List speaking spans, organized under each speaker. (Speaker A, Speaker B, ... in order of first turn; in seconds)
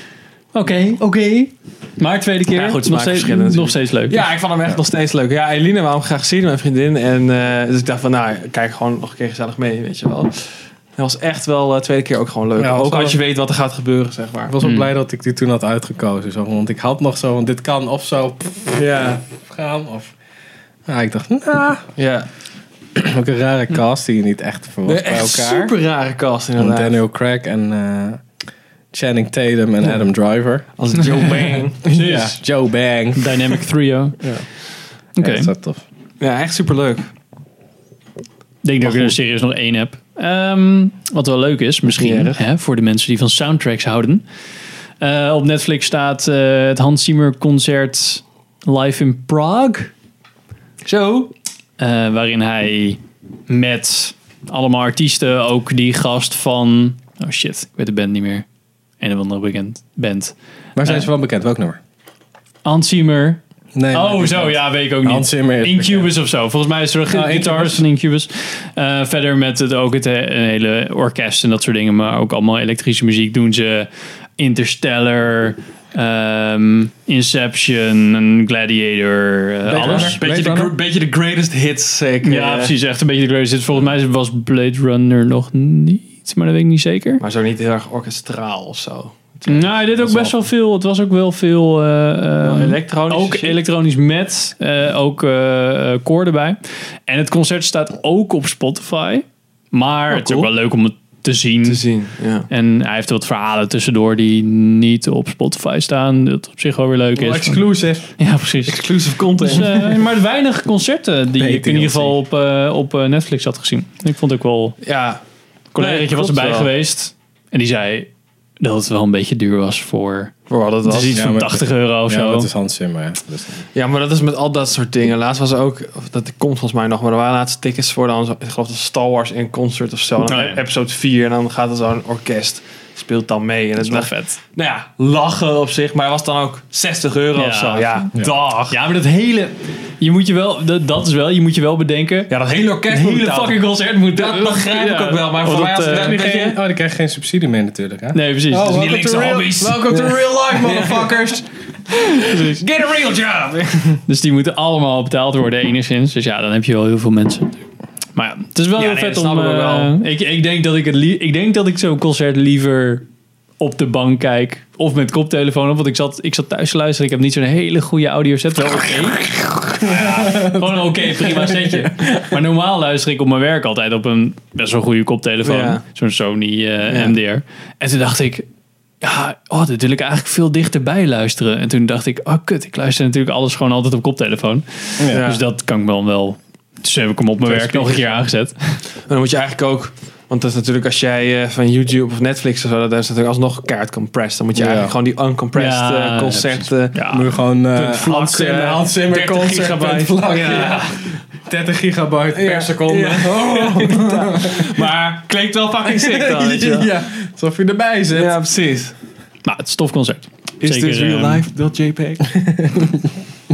Speaker A: 0.5-4.3, 14.6-14.9, 31.2-32.4, 33.1-34.3, 35.2-35.5, 38.6-44.2, 45.0-49.9, 51.8-58.5, 59.0-61.1, 62.6-63.4, 63.9-80.2, 82.2-87.2, 89.5-101.8, 102.5-107.7, 108.2-108.9, 109.4-114.8, 115.8-120.3, 120.8-122.5, 130.3-130.6, 133.8-134.4, 137.3-138.1, 138.7-142.3, 142.9-146.3, 148.1-149.4, 152.2-152.6, 154.1-157.6, 158.2-163.1, 163.6-178.5, 179.0-188.8, 195.6-197.3, 209.4-211.4
Speaker B: 2.5-14.5, 18.8-19.2, 22.0-22.3, 24.9-27.0, 30.8-31.8, 36.2-37.1, 42.0-42.4, 50.9-51.3, 79.8-82.7, 87.2-90.2, 92.4-93.6, 100.1-100.5, 101.6-102.5, 108.7-110.0, 114.8-115.2, 115.8-116.7, 120.5-121.2, 123.7-138.8, 142.3-146.6, 148.7-151.4, 151.9-154.0, 158.8-159.9, 175.4-175.8, 176.9-177.2, 185.1-185.4, 187.5-188.1, 189.1-197.1, 197.8-201.2, 202.3-206.9, 208.1-208.9, 210.6-212.3
Speaker C: 12.6-13.2, 14.5-20.1, 20.9-21.9, 23.0-25.7, 26.6-28.2, 28.9-33.4, 35.2-35.8, 60.8-61.8, 63.8-66.1, 67.1-67.8, 79.7-80.8, 90.0-90.3, 107.2-108.2, 111.4-112.2, 121.1-123.6, 145.9-151.4, 169.3-172.2, 194.6-194.9, 197.1-204.8, 205.8-208.4, 212.3-213.2